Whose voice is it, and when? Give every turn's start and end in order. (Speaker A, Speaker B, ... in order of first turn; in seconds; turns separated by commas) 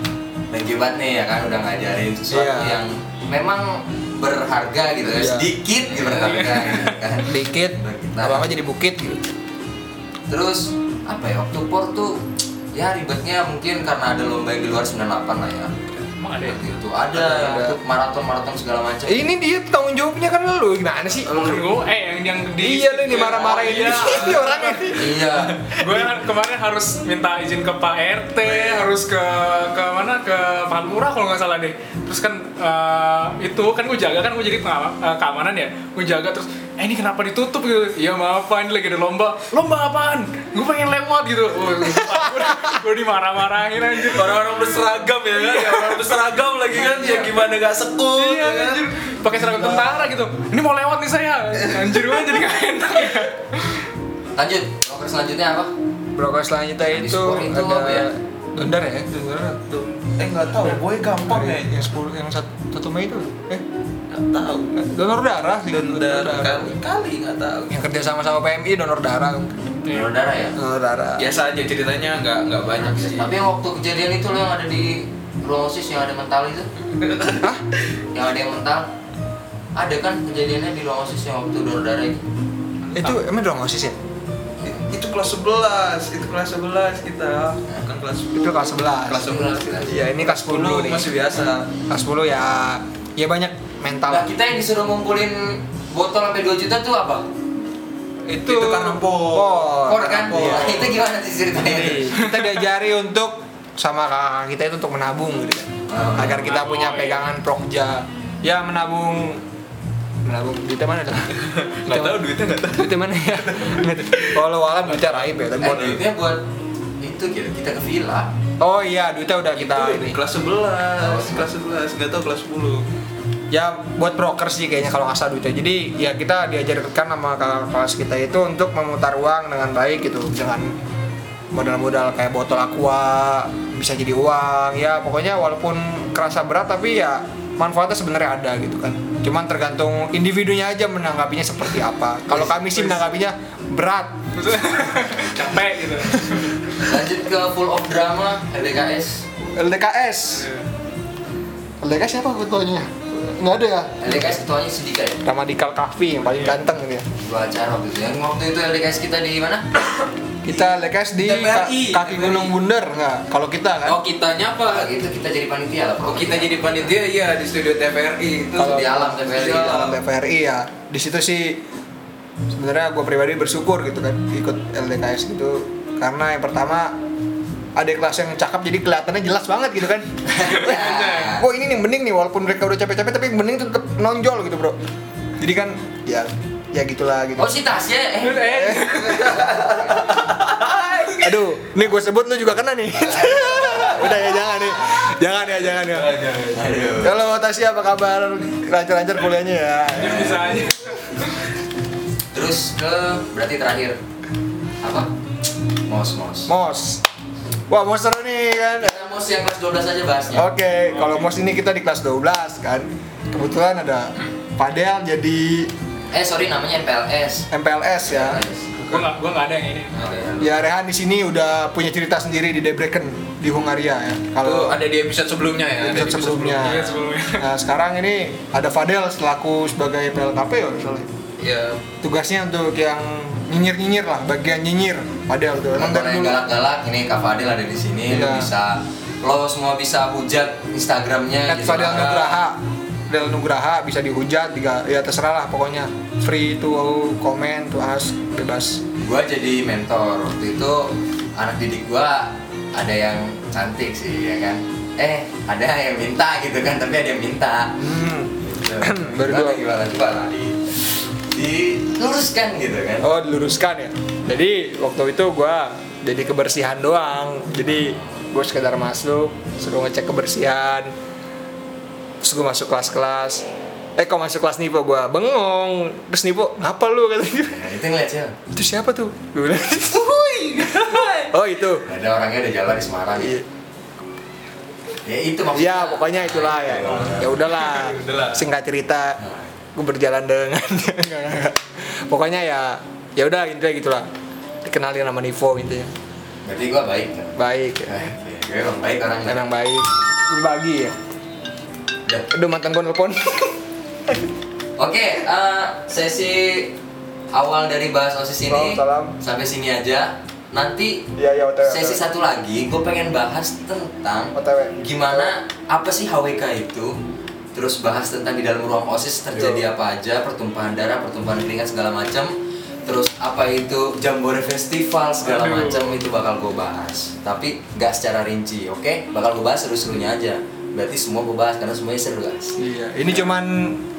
Speaker A: 0.5-8.5, Speaker B: 2.3-2.8, Speaker B: 5.0-5.5, Speaker C: 6.0-7.0, Speaker B: 7.2-9.2, Speaker A: 10.3-12.2, Speaker A: 12.7-15.7, Speaker C: 16.2-16.6, Speaker A: 16.4-19.3, Speaker B: 17.1-17.8, Speaker B: 19.1-21.4, Speaker C: 21.3-25.0, Speaker B: 22.6-25.2, Speaker A: 23.1-24.4, Speaker A: 24.9-25.6, Speaker C: 25.5-44.6, Speaker D: 44.1-50.0, Speaker C: 45.5-46.0, Speaker C: 46.8-47.2, Speaker C: 48.1-53.9, Speaker A: 54.4-55.7, Speaker B: 56.2-59.6, Speaker A: 56.9-58.1, Speaker D: 59.7-61.8, Speaker B: 61.2-63.6, Speaker D: 64.1-64.8, Speaker B: 64.7-66.8, Speaker D: 65.7-67.8, Speaker B: 67.7-69.6, Speaker A: 69.9-70.5, Speaker B: 70.6-71.3, Speaker D: 71.2-73.3, Speaker A: 73.1-76.7, Speaker D: 77.0-77.5, Speaker A: 78.1-78.9, Speaker A: 79.8-82.2, Speaker B: 82.9-84.0, Speaker D: 84.6-91.7, Speaker B: 88.3-89.3, Speaker A: 89.2-90.0, Speaker B: 89.9-91.1, Speaker B: 91.9-94.3, Speaker A: 94.1-97.3, Speaker B: 98.3-100.9, Speaker D: 98.5-101.0, Speaker A: 99.9-102.1, Speaker B: 101.6-109.4, Speaker A: 105.9-106.6, Speaker C: 106.4-107.3, Speaker B: 110.2-111.4, Speaker D: 111.4-115.3, Speaker B: 111.9-116.0, Speaker A: 115.6-116.4, Speaker A: 117.0-118.3, Speaker B: 118.6-120.2, Speaker D: 119.5-122.9, Speaker A: 121.0-121.5, Speaker B: 123.5-130.7, Speaker B: 131.5-144.2, Speaker C: 144.3-146.6, Speaker A: 146.8-149.3, Speaker B: 149.6-150.5, Speaker C: 150.4-150.7, Speaker B: 151.8-154.4, Speaker A: 154.0-155.2, Speaker B: 155.2-157.1, Speaker C: 156.3-156.6, Speaker A: 157.2-159.7, Speaker B: 160.4-164.0, Speaker D: 160.5-162.5, Speaker D: 163.8-164.9, Speaker A: 164.6-166.9, Speaker D: 166.1-168.8, Speaker B: 168.6-171.6, Speaker A: 168.6-170.0, Speaker D: 169.4-169.8, Speaker B: 172.5-176.9, Speaker B: 177.8-184.8, Speaker A: 180.3-181.5, Speaker C: 180.5-181.3, Speaker B: 185.4-187.5, Speaker A: 187.4-190.1, Speaker C: 188.2-189.3, Speaker B: 188.5-189.4, Speaker D: 190.3-191.3, Speaker B: 191.2-196.2, Speaker A: 193.1-194.1, Speaker D: 195.7-196.8, Speaker A: 196.5-197.2, Speaker B: 197.0-200.6, Speaker C: 199.9-201.3, Speaker A: 202.3-204.0, Speaker A: 204.8-205.1, Speaker A: 205.9-206.5, Speaker B: 206.5-207.0, Speaker B: 207.7-209.0, Speaker A: 208.8-210.5, Speaker B: 210.3-215.7, Speaker C: 210.9-211.4, Speaker A: 216.1-217.5, Speaker B: 217.5-218.4, Speaker A: 218.0-218.8, Speaker C: 218.9-220.2, Speaker A: 219.9-220.6, Speaker B: 220.4-224.8, Speaker D: 224.4-227.1, Speaker B: 225.8-231.1, Speaker C: 226.6-227.5, Speaker D: 231.4-231.8, Speaker B: 232.0-236.4, Speaker A: 235.7-242.4, Speaker B: 238.1-238.5, Speaker B: 241.5-248.8, Speaker A: 249.0-257.8, Speaker B: 257.8-259.6, Speaker A: 258.4-260.6, Speaker A: 261.3-263.1, Speaker B: 263.0-270.9, Speaker B: 272.2-273.4, Speaker B: 274.0-277.7, Speaker A: 277.5-278.4, Speaker B: 278.5-280.1, Speaker D: 280.1-281.3, Speaker C: 280.3-281.0, Speaker B: 281.3-281.9, Speaker A: 281.9-283.4, Speaker B: 283.2-283.4, Speaker A: 285.1-287.4, Speaker B: 285.5-289.2, Speaker D: 286.8-288.4, Speaker B: 289.8-294.1, Speaker B: 294.6-295.9, Speaker A: 296.4-297.4, Speaker B: 297.4-298.1, Speaker A: 297.9-299.4, Speaker B: 299.3-300.9, Speaker B: 302.3-303.6, Speaker A: 304.8-306.7, Speaker A: 307.3-311.0, Speaker B: 308.5-309.1, Speaker B: 311.2-312.1, Speaker A: 311.6-316.9, Speaker B: 314.3-315.3, Speaker A: 317.5-322.3, Speaker B: 319.3-319.7, Speaker A: 322.9-333.3, Speaker B: 325.2-326.0, Speaker B: 332.6-333.8